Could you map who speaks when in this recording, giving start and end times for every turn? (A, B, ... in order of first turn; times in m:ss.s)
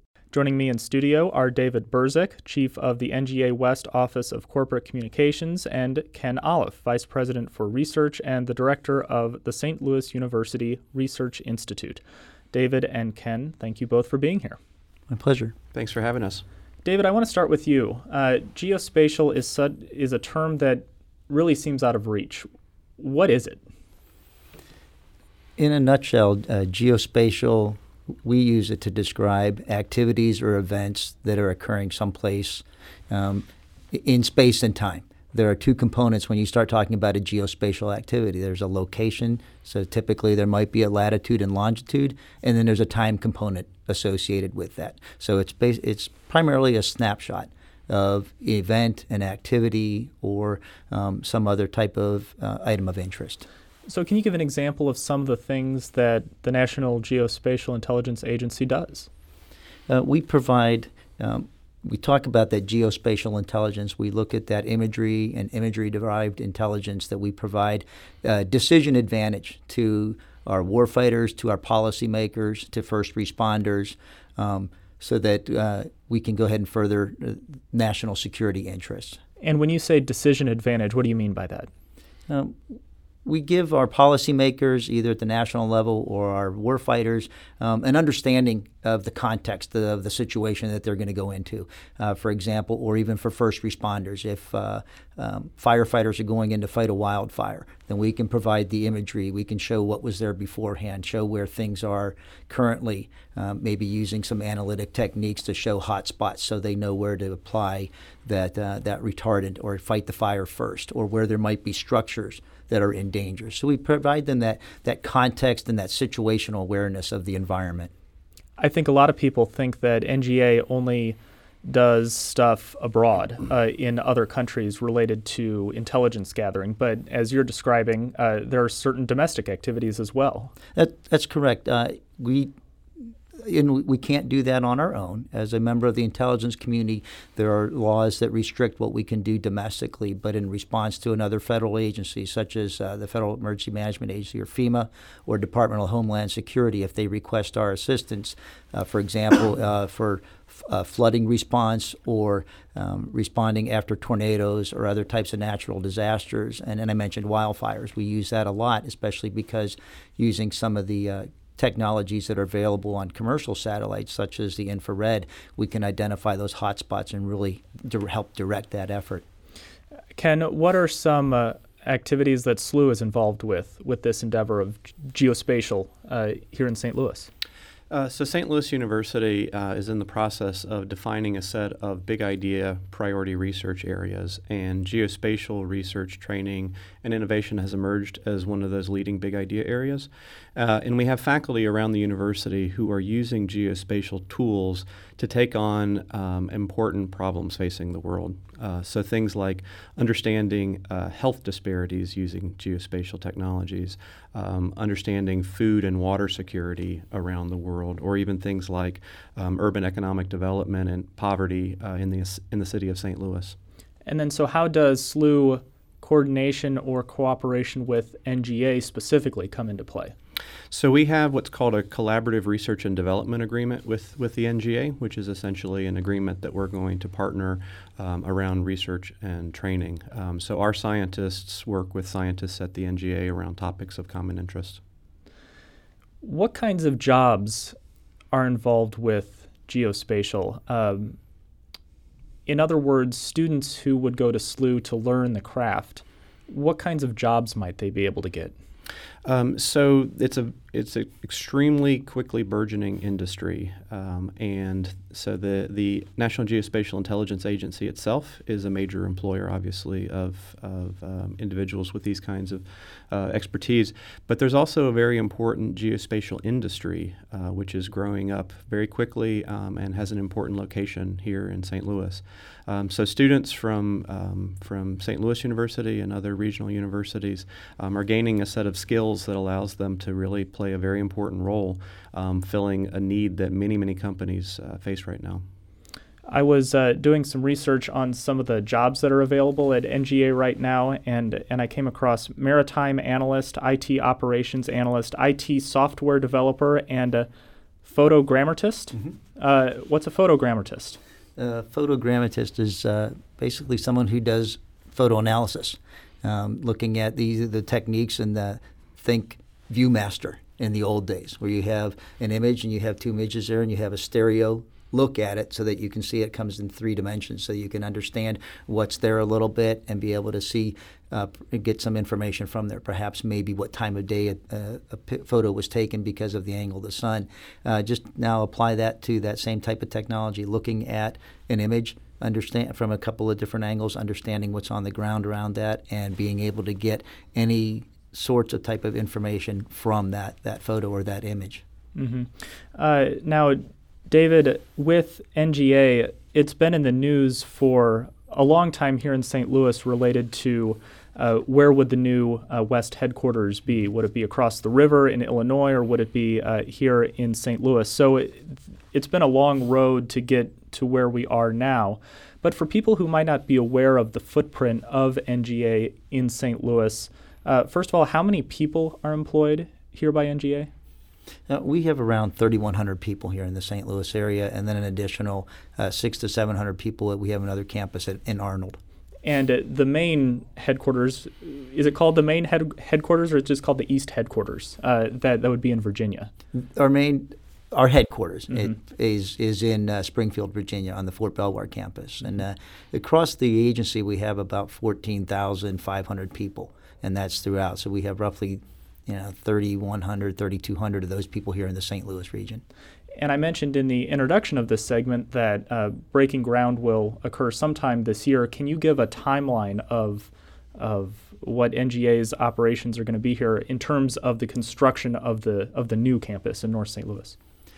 0:00.3-0:12.0 A
0:12.5-0:14.6 A
0:15.1-0:15.5 B
0:15.7-0:16.4 C
0:16.8-0:23.6 A
0:25.6-0:53.4 B
0:53.8-0:59.1 A
0:59.9-1:19.2 B
1:19.4-1:21.7 A
1:22.3-1:57.9 B
1:58.6-2:10.5 A
2:10.7-2:12.5 B
2:13.4-2:49.2 B
2:50.1-2:57.3 A
2:57.9-3:33.6 C
3:34.0-3:40.1 A
3:40.7-3:54.8 C
3:56.2-3:57.7 A
3:58.3-4:01.2 A
4:02.4-4:08.5 A
4:09.2-4:45.4 C
4:46.3-4:57.3 A
4:57.8-5:01.0 A
5:01.4-5:41.6 B
5:41.9-6:10.7 A
6:11.5-6:18.8 B
6:19.2-6:26.3 A
6:26.5-6:42.6 B
6:43.2-6:57.4 A